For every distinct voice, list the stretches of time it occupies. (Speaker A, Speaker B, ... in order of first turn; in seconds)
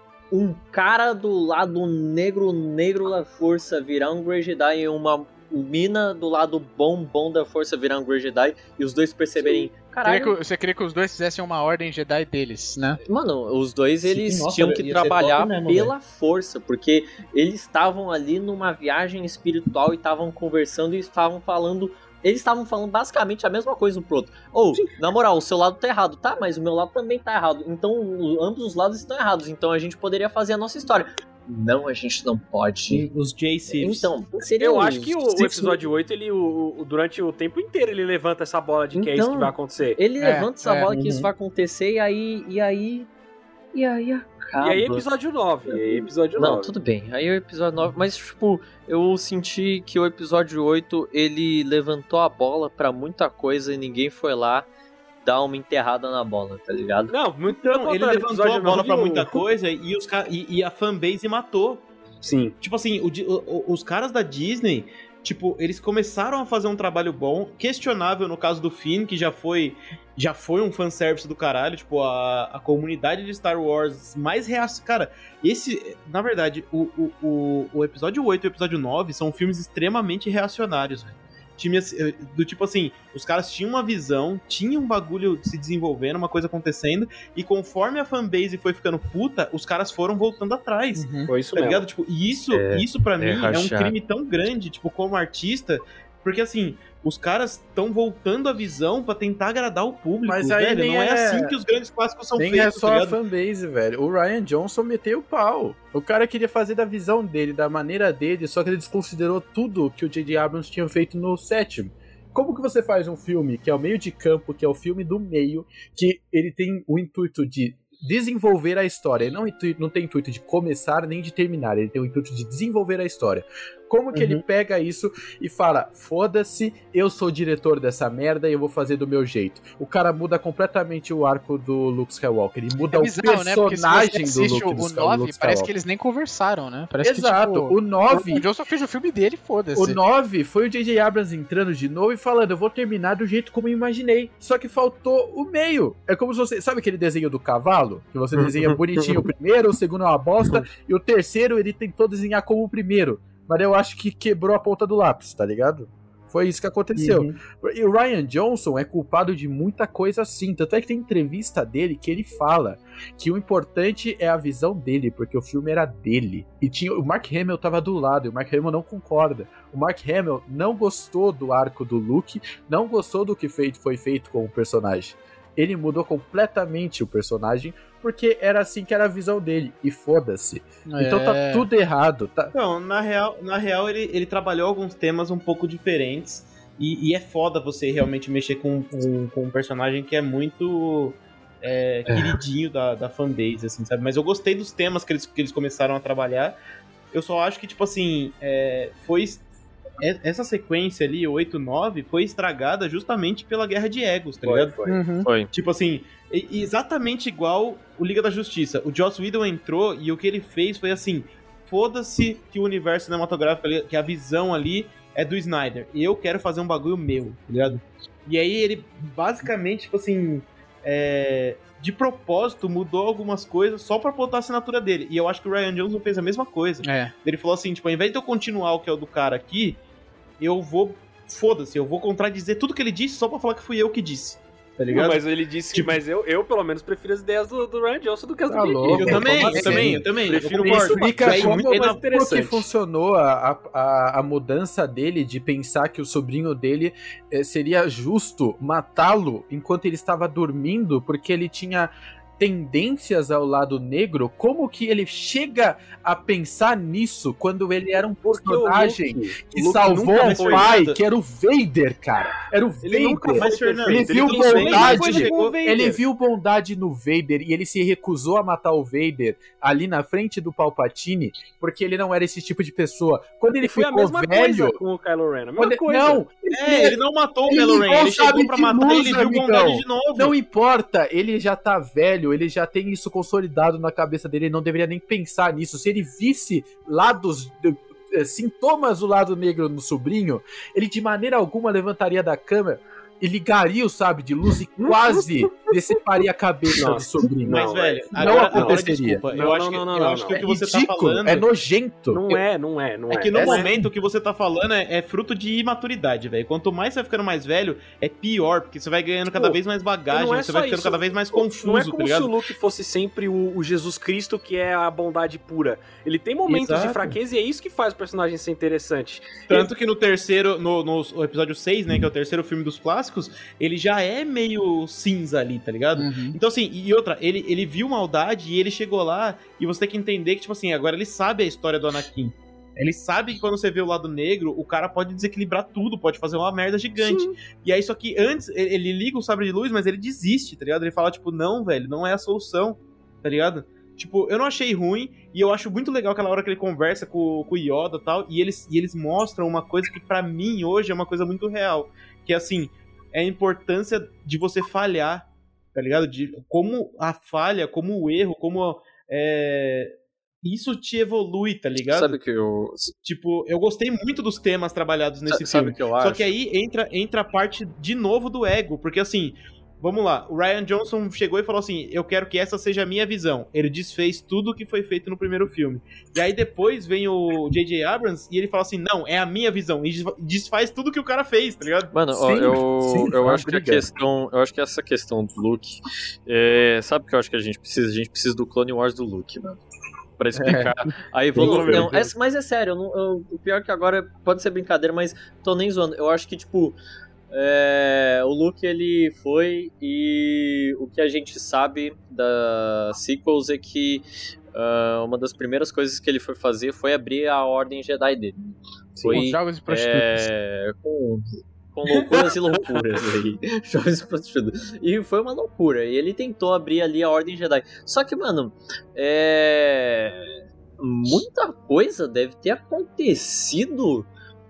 Speaker A: 0.3-10.4, 13.1-33.1, 33.7-35.8, 39.0-43.1, 43.7-45.1, 45.7-54.7, 55.2-57.1, 92.5-94.0, 148.4-149.2, 192.1-192.3, 204.4-205.5, 361.9-362.9, 365.3-366.4, 381.9-389.6, 390.2-396.8, 397.3-424.1
Speaker B: 10.1-13.0, 40.2-40.9, 91.0-91.3, 132.9-140.0, 180.9-181.7, 204.9-205.3, 226.8-227.1, 326.0-326.4, 409.0-410.3
Speaker C: 14.0-15.9, 32.9-34.1, 57.5-61.9, 62.6-103.2, 157.0-157.3, 182.5-196.6, 197.1-199.4, 200.0-229.8, 230.4-235.2, 235.7-236.0, 238.9-242.0, 260.2-261.0, 263.3-265.6, 276.5-280.3, 297.5-301.5, 303.1-312.3, 316.5-317.1, 319.5-362.2, 363.0-381.9, 391.3-392.0, 411.9-412.3
Speaker D: 34.4-40.0, 44.6-46.7, 57.1-59.4, 62.2-62.5, 91.3-91.9, 234.9-242.7, 258.2-260.8, 262.8-266.0, 273.6-276.2, 294.8-295.8, 296.8-300.4, 302.1-303.7, 309.3-309.6, 310.1-319.7, 337.0-337.4
Speaker E: 100.3-101.5, 102.4-135.7, 137.0-138.4, 139.8-182.5, 238.5-240.1, 240.6-274.8, 275.6-277.0, 277.5-299.2, 300.4-302.4, 303.3-303.9, 382.1-383.9, 390.4-390.8, 391.3-392.1